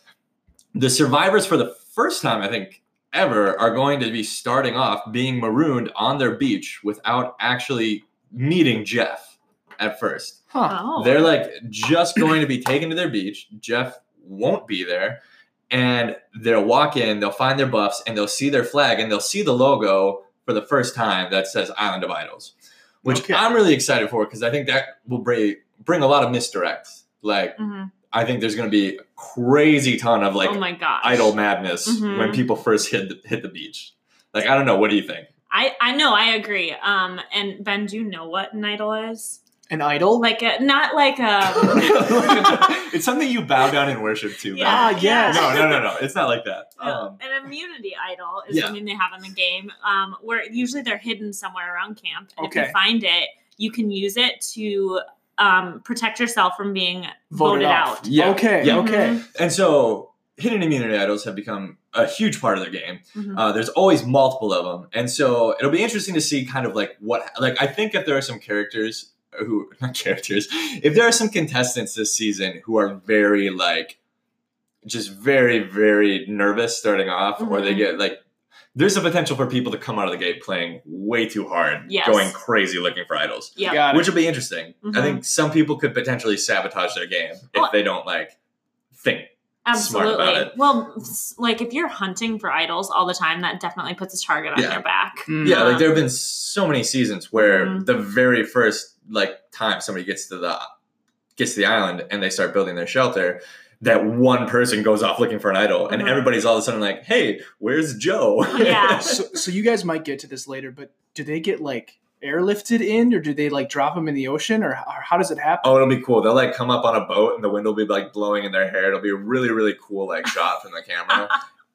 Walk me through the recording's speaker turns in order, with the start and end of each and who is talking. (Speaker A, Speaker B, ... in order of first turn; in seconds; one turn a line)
Speaker A: 0.7-27.6
Speaker B: 10.7-11.3
Speaker C: 23.0-23.5
Speaker B: 27.6-27.9
Speaker A: 28.1-35.3
Speaker B: 30.4-31.3
Speaker B: 31.9-32.4
Speaker B: 35.5-39.4
Speaker C: 39.7-40.3
Speaker B: 40.2-42.7
Speaker A: 41.5-47.2
Speaker B: 44.5-45.8
Speaker C: 44.6-45.7
Speaker B: 46.8-59.2
Speaker A: 48.5-48.7
Speaker C: 52.4-52.8
Speaker C: 57.3-59.2
Speaker A: 58.0-74.0
Speaker B: 63.1-63.4
Speaker A: 74.8-78.2
Speaker B: 77.4-77.8
Speaker A: 78.7-88.3
Speaker B: 81.9-82.3
Speaker B: 83.5-83.8
Speaker C: 83.7-84.1
Speaker B: 84.8-85.2
Speaker A: 88.9-90.5
Speaker B: 89.7-96.0
Speaker A: 94.5-94.8
Speaker C: 95.3-95.7
Speaker A: 95.4-100.7
Speaker B: 97.3-97.9
Speaker A: 101.3-109.2
Speaker B: 105.9-106.2
Speaker B: 108.5-109.1
Speaker C: 109.0-115.7
Speaker A: 115.6-121.3